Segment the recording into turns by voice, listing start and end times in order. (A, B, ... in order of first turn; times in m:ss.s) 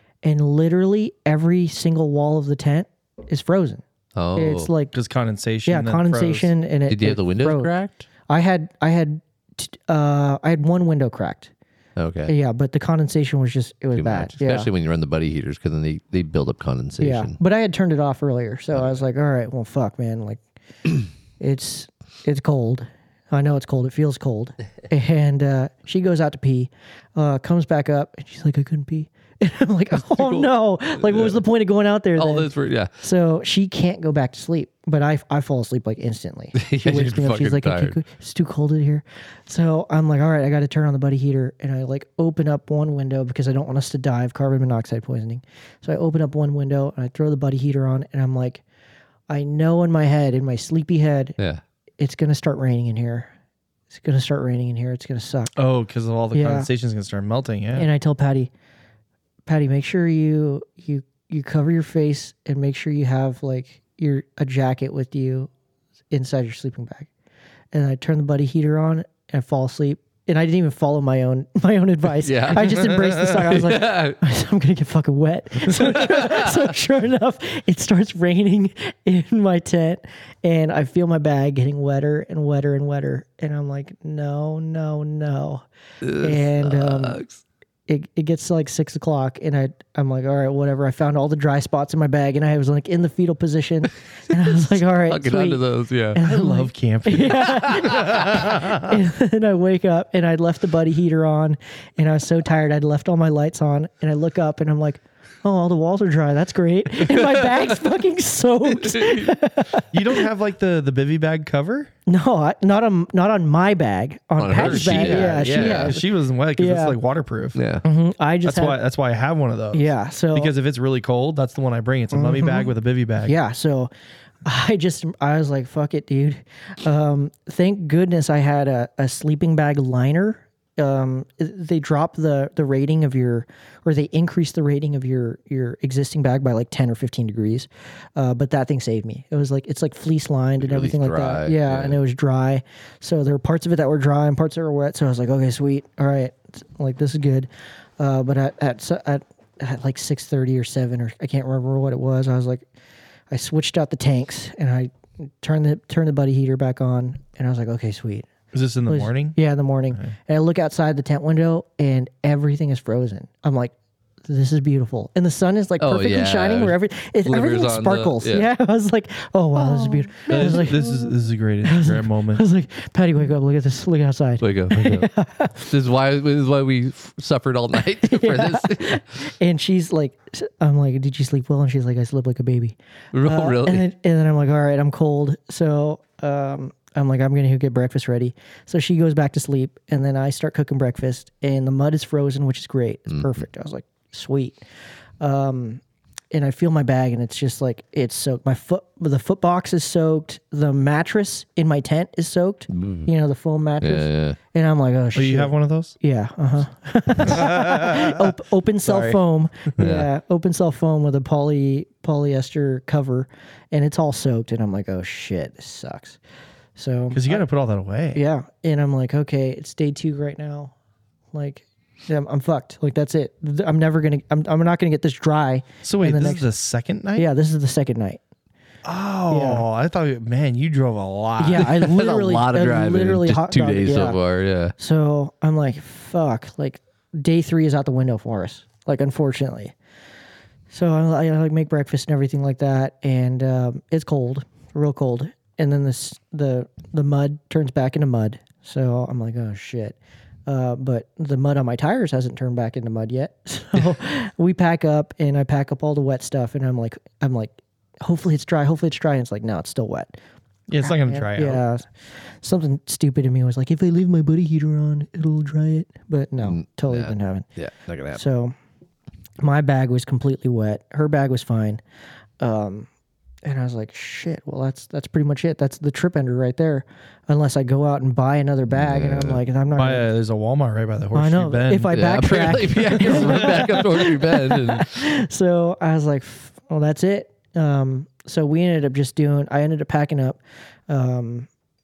0:00.2-0:03.8 A
0:04.1-0:04.7 B
0:04.3-0:04.9 A
0:04.9-0:06.5 C
0:05.6-0:07.7 A
0:06.9-0:08.0 B
0:08.3-0:11.5 A
0:12.0-0:12.3 B
0:12.3-0:14.7 A
0:13.9-0:17.4 B
0:17.0-0:20.4 A
0:21.4-0:48.6 A
0:29.9-0:31.4 B
0:32.2-0:32.9 B
0:36.5-0:38.0 B
0:49.3-0:51.4 A
0:52.0-0:53.3 A
0:53.9-0:55.5 A
0:55.6-0:57.9 C
0:56.3-0:56.7 A
0:57.7-0:58.5 A
0:59.4-1:05.5 A
1:06.1-1:07.1 A
1:07.7-1:27.2 A
1:12.2-1:14.2 B
1:15.8-1:16.6 B
1:26.0-1:27.4 B
1:27.9-1:50.2 A
1:35.0-1:36.2 B
1:36.2-1:38.7 C
1:37.8-1:38.3 B
1:47.1-1:47.6 B
1:48.8-1:49.3 B
1:49.9-1:51.9 C
1:52.1-1:57.0 A
1:54.4-1:56.0 B
1:54.5-1:57.6 C
1:57.5-1:57.8 B
1:57.8-1:58.8 A
1:58.4-2:03.3 C
1:59.7-2:00.5 A
2:02.1-2:02.7 A
2:03.2-2:03.9 A
2:04.4-2:32.6 A
2:20.6-2:22.0 B
2:33.3-2:38.3 A
2:38.5-2:39.4 C
2:38.9-2:43.7 A
2:44.3-2:51.1 A
2:45.8-2:48.5 B
2:50.2-2:52.4 C
2:51.6-2:55.7 A
2:54.4-2:55.1 B
2:55.6-2:59.0 B
2:58.0-3:14.6 A
3:03.1-3:03.8 B
3:13.1-3:13.4 B
3:15.2-3:15.8 A
3:16.3-3:36.2 A
3:22.8-3:23.1 B
3:23.8-3:24.4 B
3:25.1-3:25.9 C
3:27.2-3:28.3 C
3:28.8-3:29.2 C
3:29.8-3:30.1 B
3:36.8-3:37.4 A
3:37.1-3:38.2 C
3:38.1-3:40.7 A
3:41.3-3:46.5 A
3:45.8-3:47.3 C
3:47.2-3:48.2 A
3:48.8-3:51.7 C
3:49.3-3:49.6 A
3:51.4-3:54.2 A
3:51.6-3:54.7 B
3:54.8-3:59.7 A
4:00.7-4:10.0 A
4:10.5-4:20.2 A
4:20.7-4:21.6 C
4:20.8-4:21.8 A
4:22.4-4:27.4 A
4:26.4-4:28.2 B
4:28.1-4:28.5 A
4:29.4-4:31.8 A
4:32.4-4:32.9 A
4:33.4-4:40.1 A
4:38.7-4:39.4 B
4:39.8-4:42.0 C
4:41.1-4:51.5 A
4:41.9-4:45.1 B
4:43.1-4:43.4 C